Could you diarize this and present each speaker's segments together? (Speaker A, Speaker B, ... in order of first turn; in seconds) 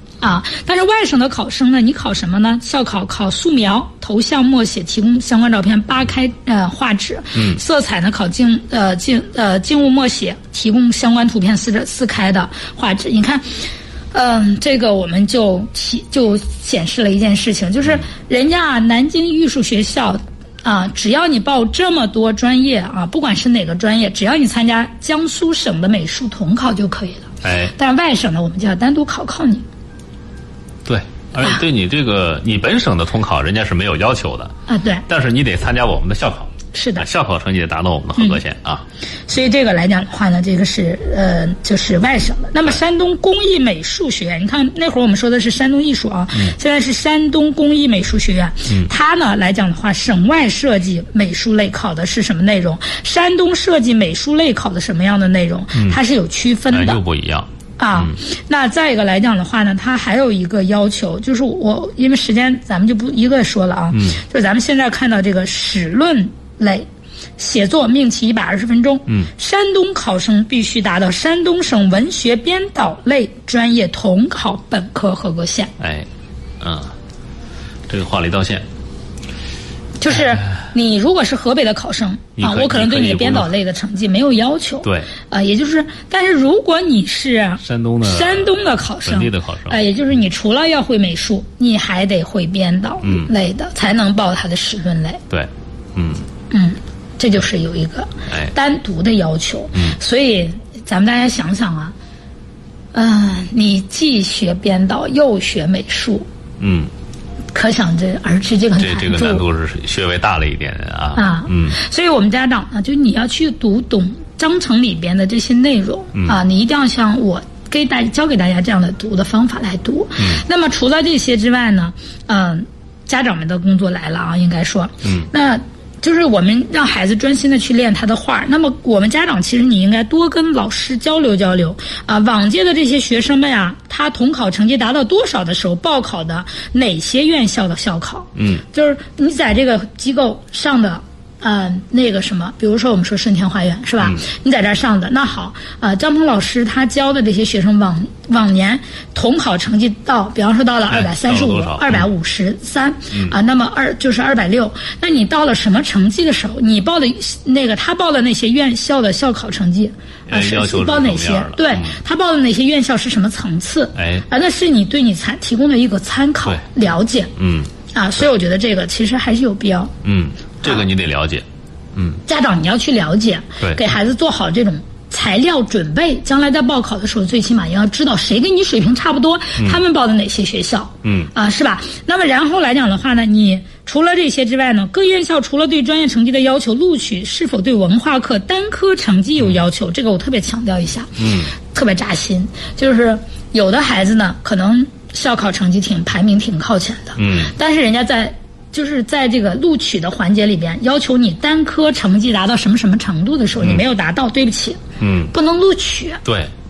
Speaker A: 0.2-29.6, 34.7-35.0, 36.7-37.0, 39.3-57.0, 57.8-66.8, 67.4-75.7, 80.0-95.2, 96.5-101.9, 102.9-106.2, 107.5-109.4, 111.1-167.3, 167.9-169.9, 172.3-206.2
Speaker B: 7.3-7.6, 27.4-27.7, 30.8-34.5, 35.1-38.8, 56.7-58.1, 63.9-64.2, 75.8-76.1, 76.6-76.9, 77.9-78.7, 82.4-83.5, 84.8-85.1, 87.6-88.5, 89.0-89.8, 93.0-93.3, 95.3-96.3, 106.6-106.9, 108.8-111.8, 138.4-138.6, 150.9-152.1, 160.3-162.0, 163.9-164.2, 167.4-167.7, 170.0-172.2, 181.0-181.3, 191.2-191.5, 197.2-197.5, 205.0-205.3, 206.2-206.5